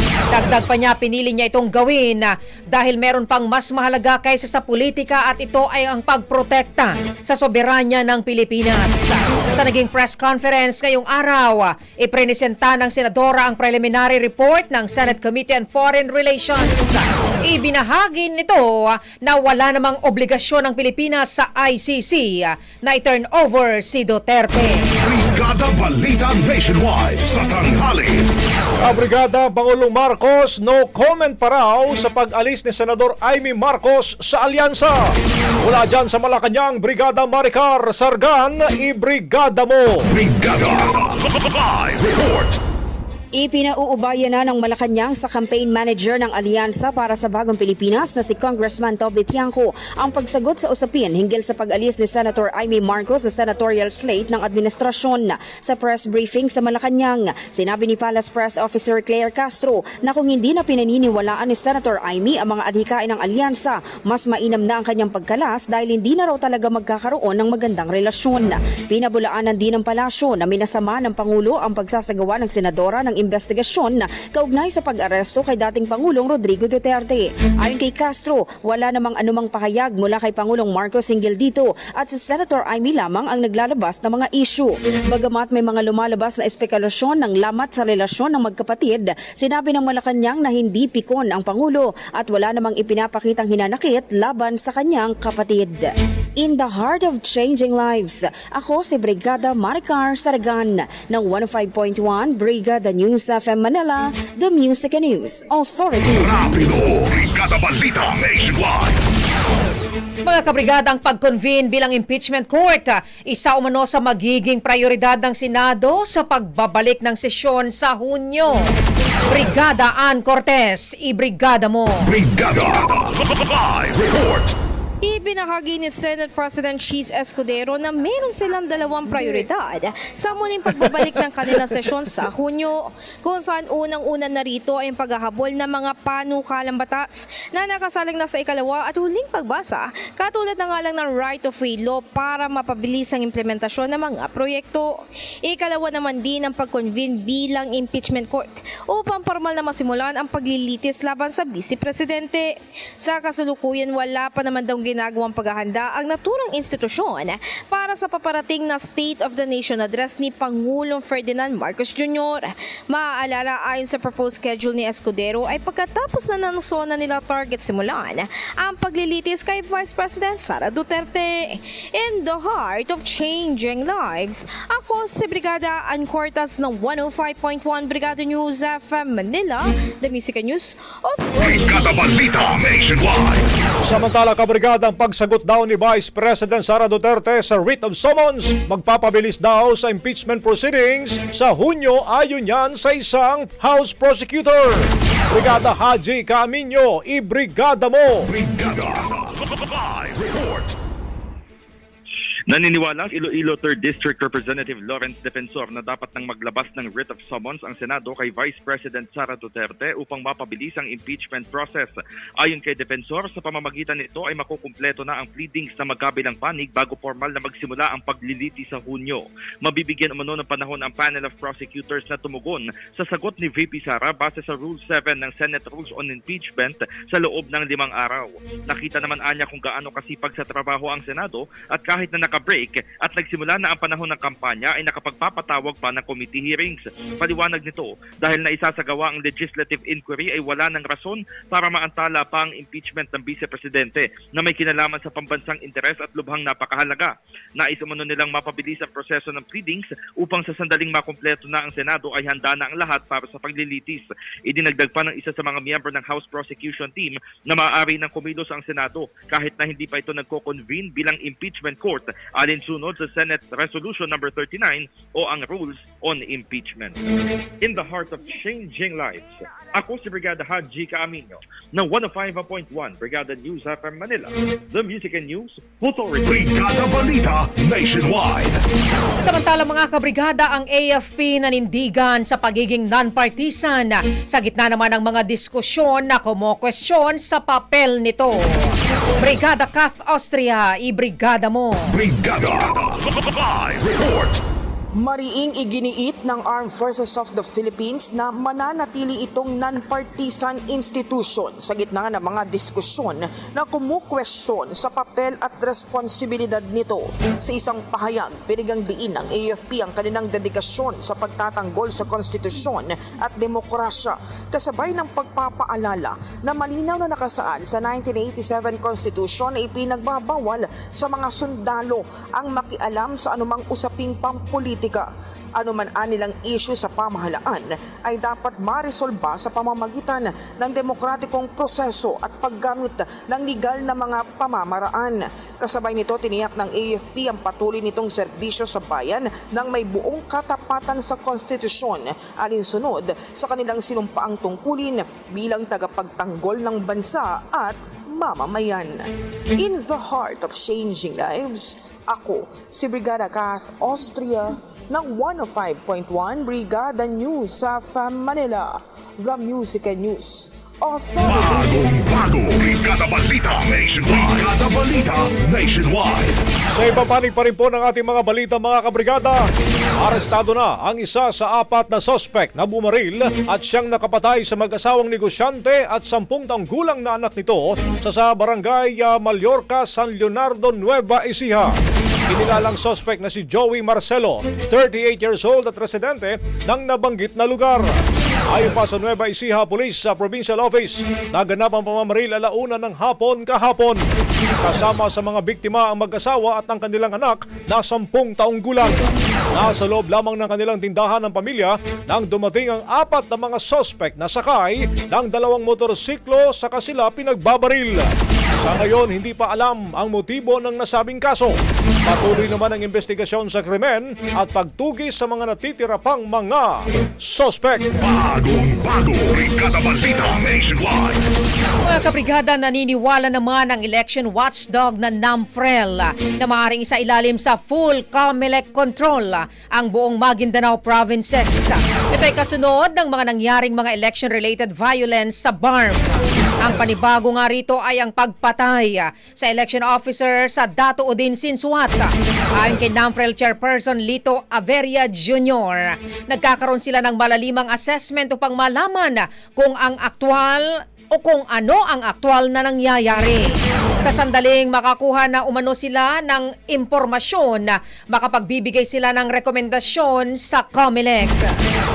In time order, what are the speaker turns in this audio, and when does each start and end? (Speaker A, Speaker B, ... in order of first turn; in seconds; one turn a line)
Speaker A: 0.3-24.8
Speaker B: 25.0-28.3
Speaker C: 28.8-35.1
Speaker C: 35.6-40.0
Speaker B: 40.1-42.6
Speaker D: 43.4-106.3
Speaker B: 106.1-109.0
Speaker A: 110.2-118.7
Speaker A: 119.3-122.1
Speaker B: 122.1-124.5
Speaker E: 125.0-144.9
Speaker E: 145.4-182.2
Speaker B: 181.4-183.4
Speaker C: 183.8-198.3
Speaker B: 198.3-200.8
Speaker F: 202.5-267.0
Speaker F: 267.6-276.4
Speaker B: 276.2-278.6
Speaker A: 279.2-291.9
Speaker B: 291.9-294.4
Speaker G: 294.9-349.0
Speaker G: 349.6-362.1
Speaker B: 361.2-366.4
Speaker C: 366.7-369.4
Speaker C: 370.0-381.8
Speaker C: 382.3-388.0
Speaker C: 388.5-394.0
Speaker C: 394.6-408.1
Speaker C: 408.6-417.9
Speaker B: 418.0-421.2
Speaker A: 421.8-461.5